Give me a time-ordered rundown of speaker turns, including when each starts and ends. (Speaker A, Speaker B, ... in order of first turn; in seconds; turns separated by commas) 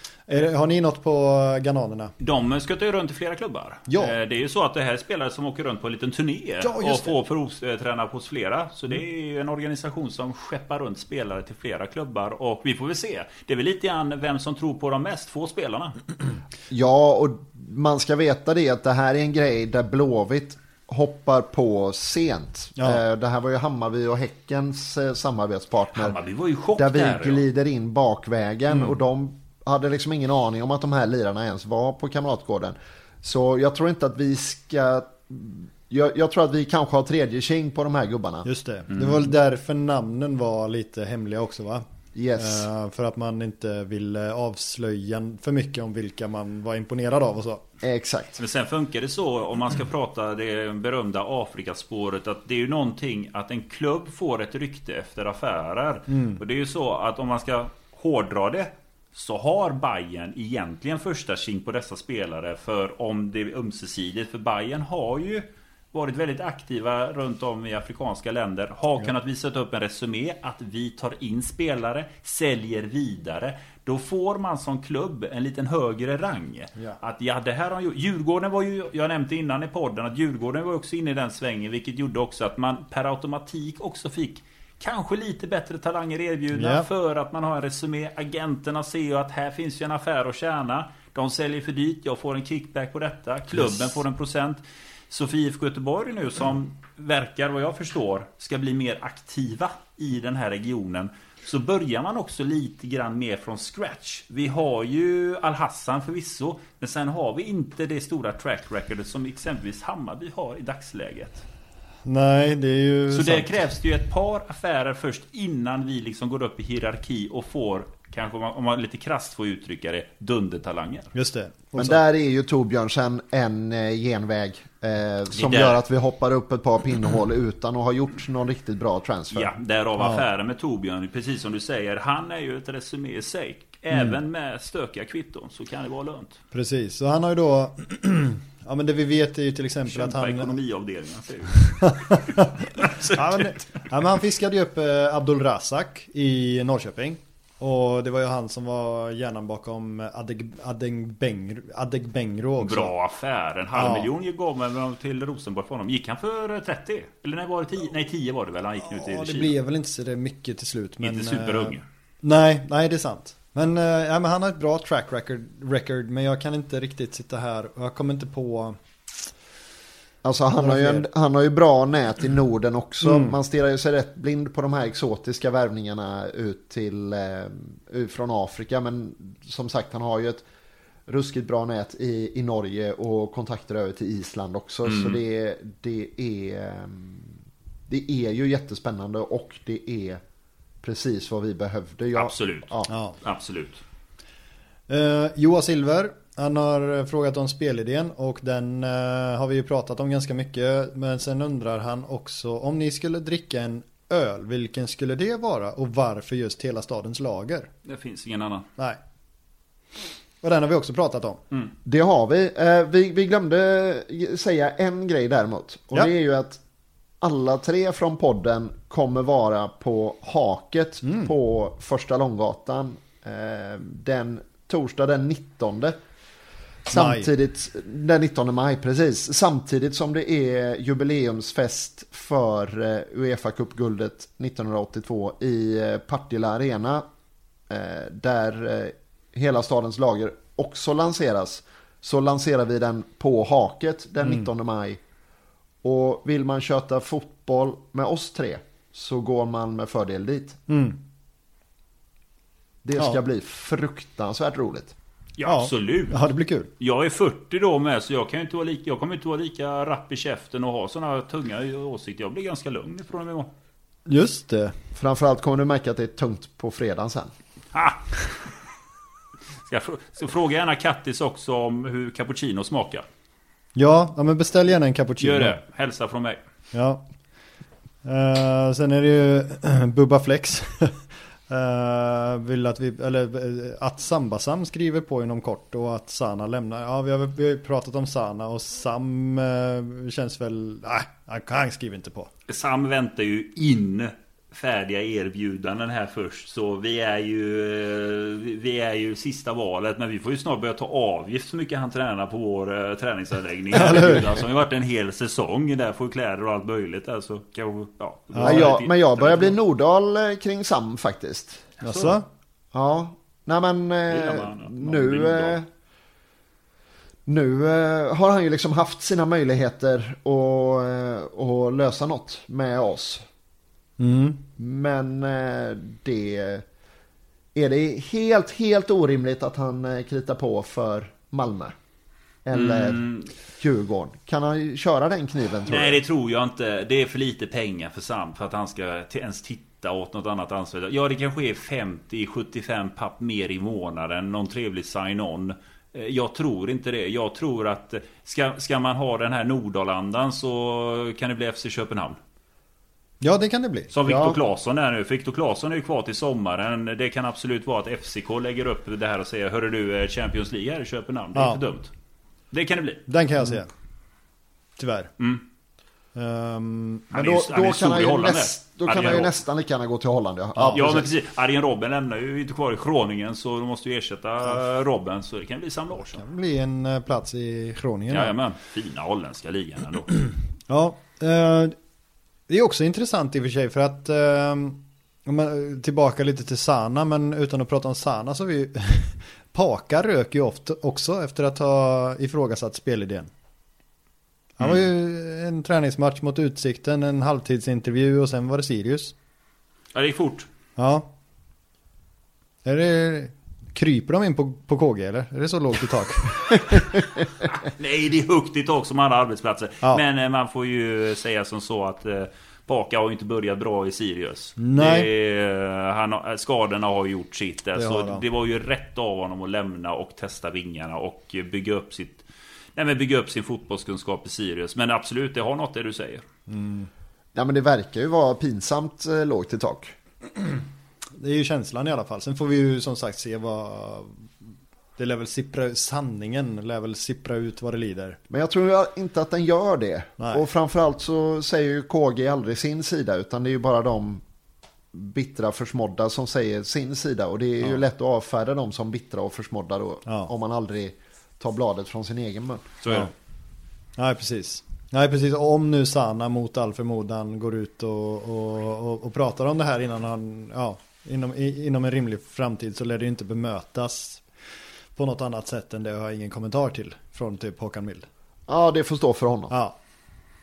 Speaker A: 0.3-2.1, Speaker B: 2.2-15.9, Speaker A: 3.9-4.2, Speaker A: 6.6-7.1, Speaker C: 16.7-26.1, Speaker B: 25.9-27.4, Speaker C: 26.8-38.5, Speaker A: 38.4-41.8, Speaker B: 38.9-39.2, Speaker C: 42.1-42.7, Speaker A: 42.4-47.6, Speaker C: 47.8-48.4, Speaker B: 48.4-111.4, Speaker A: 56.1-56.4, Speaker A: 86.5-86.9, Speaker A: 112.0-113.5, Speaker B: 113.1-121.1, Speaker A: 121.1-122.0, Speaker C: 121.7-129.5, Speaker B: 125.3-125.8, Speaker B: 129.3-136.4, Speaker A: 136.5-140.5, Speaker B: 139.9-143.8, Speaker A: 141.8-152.9, Speaker B: 152.6-159.6, Speaker A: 153.7-154.1, Speaker A: 158.8-168.8, Speaker B: 161.0-161.8, Speaker C: 170.2-180.4, Speaker A: 170.6-171.1, Speaker A: 173.0-173.3, Speaker C: 181.1-187.3, Speaker B: 184.8-185.2, Speaker C: 187.9-190.2, Speaker C: 190.8-192.9, Speaker B: 192.2-193.8, Speaker A: 192.9-193.2, Speaker A: 194.9-207.7, Speaker B: 207.8-208.7, Speaker A: 210.4-211.4, Speaker C: 211.8-216.6, Speaker C: 217.2-226.0, Speaker A: 221.0-221.3, Speaker C: 226.8-237.0, Speaker A: 226.9-227.3, Speaker C: 237.7-245.0, Speaker C: 245.8-250.6, Speaker A: 250.7-251.0, Speaker C: 252.8-254.9, Speaker B: 255.4-256.2, Speaker A: 255.4-256.7, Speaker B: 256.8-263.5, Speaker A: 264.1-264.8, Speaker C: 264.9-267.3, Speaker B: 267.7-268.5, Speaker B: 269.6-273.1, Speaker A: 273.8-275.6, Speaker B: 275.2-276.4, Speaker A: 276.7-277.1, Speaker A: 278.0-292.3, Speaker B: 292.5-309.6, Speaker A: 303.8-304.2, Speaker A: 308.3-308.7, Speaker C: 308.4-311.7, Speaker B: 311.8-312.2, Speaker A: 311.8-312.2, Speaker C: 312.7-315.7, Speaker B: 314.1-315.6, Speaker C: 317.2-323.2, Speaker A: 324.0-324.4, Speaker C: 324.6-326.6, Speaker C: 327.5-331.7, Speaker C: 332.4-336.0, Speaker B: 332.5-333.3, Speaker B: 335.6-352.2, Speaker A: 353.2-353.9, Speaker B: 353.9-361.9, Speaker C: 354.0-354.4, Speaker A: 361.3-361.6, Speaker B: 362.5-363.0, Speaker A: 363.1-363.7, Speaker A: 364.8-365.1, Speaker A: 366.1-367.1, Speaker B: 367.1-369.3, Speaker C: 367.1-371.1, Speaker B: 370.6-376.2, Speaker A: 376.1-378.3, Speaker B: 378.1-380.1, Speaker A: 380.7-381.8, Speaker A: 382.5-393.3, Speaker A: 394.6-399.1, Speaker B: 399.9-400.5, Speaker A: 400.8-401.1, Speaker A: 402.6-406.8, Speaker B: 407.5-426.2, Speaker A: 414.6-415.1, Speaker A: 417.8-418.2, Speaker A: 426.5-426.9, Speaker C: 427.3-429.9, Speaker A: 431.1-434.3, Speaker A: 435.0-438.2, Speaker C: 438.3-444.2, Speaker C: 444.9-452.7, Speaker B: 452.8-453.1, Speaker A: 454.0-464.2, Speaker A: 464.9-468.1, Speaker C: 468.5-469.5, Speaker A: 469.5-469.8